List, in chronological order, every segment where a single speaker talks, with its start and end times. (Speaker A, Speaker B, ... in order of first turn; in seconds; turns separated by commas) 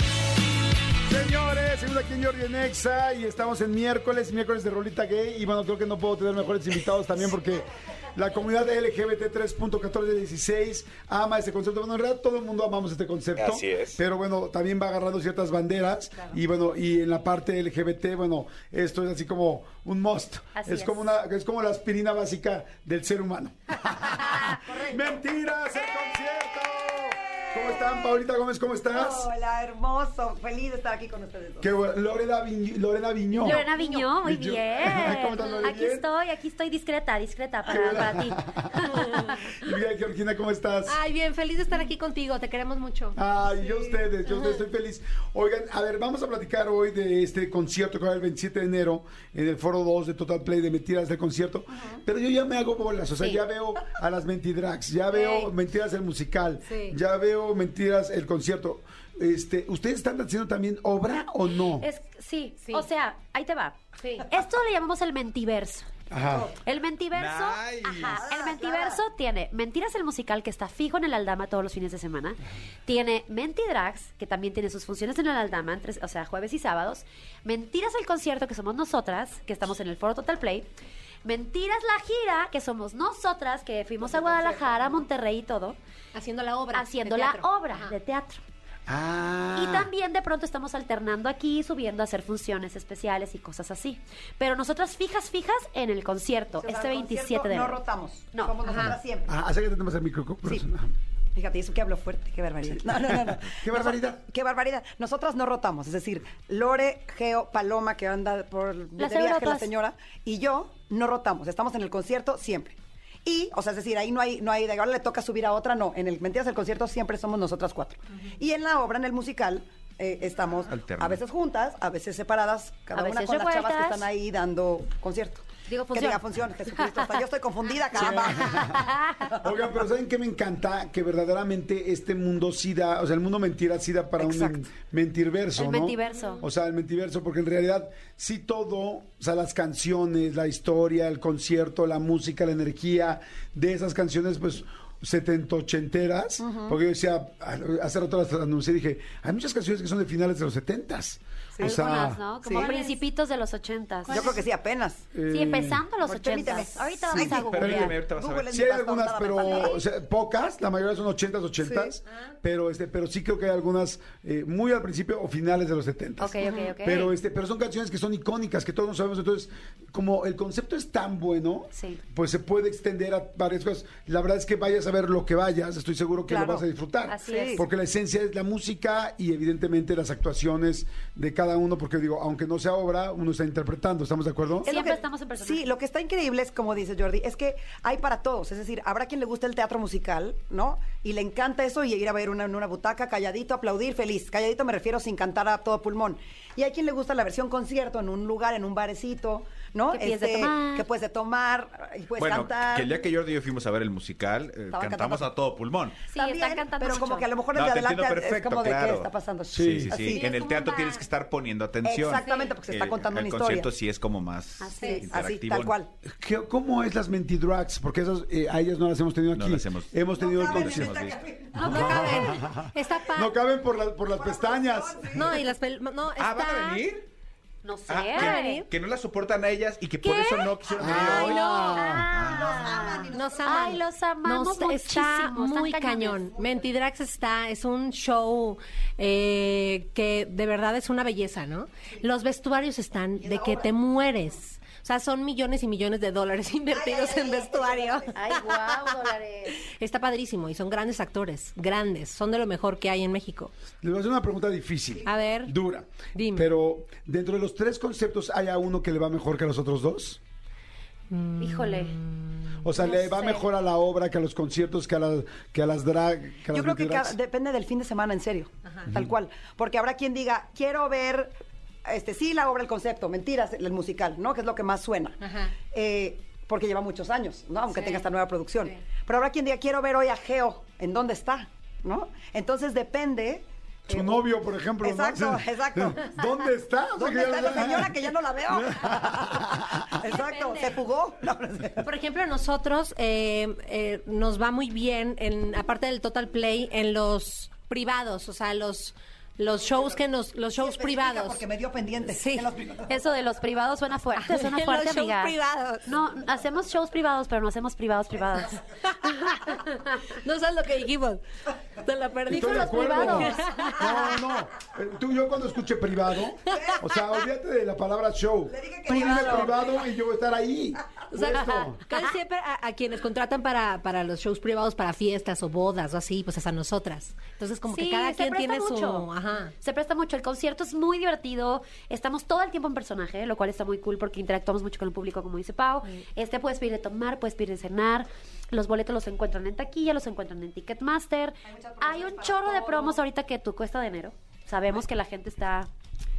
Speaker A: 1.1-29.3, Speaker B: 13.4-14.0, Speaker C: 20.5-21.1, Speaker D: 24.6-25.2, Speaker D: 27.4-28.2, Speaker D: 28.9-31.7, Speaker A: 31.6-33.6, Speaker C: 33.4-39.4, Speaker E: 33.5-34.1, Speaker A: 34.2-36.0, Speaker E: 35.4-35.6, Speaker A: 37.6-41.0, Speaker D: 37.7-38.1, Speaker E: 40.9-43.2, Speaker A: 43.1-61.9, Speaker E: 44.3-44.6, Speaker E: 55.1-55.5, Speaker E: 56.6-57.0, Speaker C: 61.8-65.9, Speaker E: 62.6-62.9, Speaker E: 64.0-64.2, Speaker A: 66.1-66.5, Speaker D: 66.3-66.5, Speaker C: 66.6-80.7, Speaker B: 67.1-68.2, Speaker D: 67.9-69.0, Speaker C: 81.2-85.8, Speaker D: 84.0-85.0, Speaker E: 86.1-87.9, Speaker C: 86.7-88.4, Speaker A: 88.9-89.9, Speaker C: 89.5-97.8, Speaker D: 96.5-99.3, Speaker E: 98.6-98.9, Speaker A: 99.3-100.9, Speaker D: 101.3-128.7, Speaker A: 102.7-104.2, Speaker C: 109.0-109.7, Speaker B: 120.7-121.2, Speaker C: 122.9-124.1, Speaker C: 125.7-126.2, Speaker A: 127.9-152.2, Speaker C: 128.0-129.3, Speaker C: 134.2-134.7, Speaker C: 135.6-136.4, Speaker D: 146.4-146.8, Speaker C: 151.6-154.3, Speaker D: 152.4-152.8, Speaker E: 152.6-152.9, Speaker D: 154.1-155.0, Speaker A: 155.1-155.8, Speaker C: 155.3-158.0, Speaker D: 156.0-159.8, Speaker A: 157.1-158.0, Speaker B: 157.2-158.5, Speaker A: 158.5-184.7, Speaker D: 161.6-161.9, Speaker C: 166.2-167.1, Speaker C: 171.7-172.0, Speaker D: 176.3-176.7, Speaker C: 177.1-177.7, Speaker D: 177.2-177.6, Speaker D: 184.6-203.1, Speaker C: 184.6-185.6, Speaker C: 199.9-200.9, Speaker B: 202.1-206.0, Speaker D: 204.7-205.3, Speaker C: 206.1-207.3, Speaker D: 206.1-210.3, Speaker B: 207.5-215.8, Speaker A: 209.5-210.0, Speaker C: 210.1-210.9, Speaker D: 211.8-213.7, Speaker C: 214.6-215.1, Speaker E: 214.8-215.0, Speaker D: 215.1-215.9, Speaker A: 216.0-225.3, Speaker B: 219.3-221.2, Speaker D: 220.1-222.4, Speaker E: 221.6-223.3, Speaker D: 224.0-225.3, Speaker E: 225.1-226.8, Speaker B: 226.2-227.1, Speaker C: 227.6-228.6, Speaker B: 227.9-231.5, Speaker E: 228.1-228.7, Speaker C: 230.1-230.4, Speaker A: 230.8-232.1, Speaker E: 231.1-232.0, Speaker C: 231.2-236.4, Speaker B: 232.1-233.1, Speaker D: 232.2-233.8, Speaker E: 233.1-248.2, Speaker D: 243.2-243.7, Speaker D: 246.7-248.2, Speaker C: 248.1-249.6, Speaker E: 249.7-253.5, Speaker A: 253.8-260.2, Speaker E: 255.0-255.5, Speaker E: 256.1-256.5, Speaker E: 261.1-262.7, Speaker C: 261.4-261.9, Speaker A: 262.6-267.1, Speaker C: 262.8-263.4, Speaker D: 266.5-271.3, Speaker D: 271.8-275.2, Speaker E: 275.2-275.5, Speaker D: 275.7-284.2, Speaker E: 277.8-278.0, Speaker A: 283.9-289.8, Speaker D: 284.8-286.2, Speaker D: 287.0-291.9, Speaker E: 290.0-290.8, Speaker E: 291.8-301.4, Speaker D: 300.6-303.0, Speaker E: 302.1-302.5, Speaker C: 302.9-308.6, Speaker E: 304.1-305.9, Speaker E: 308.8-309.6, Speaker E: 310.1-311.2, Speaker E: 311.7-314.1, Speaker A: 312.3-321.8, Speaker C: 312.3-313.8, Speaker D: 318.5-319.7, Speaker C: 318.9-319.4, Speaker E: 321.1-329.5, Speaker C: 327.7-345.7, Speaker D: 341.4-343.0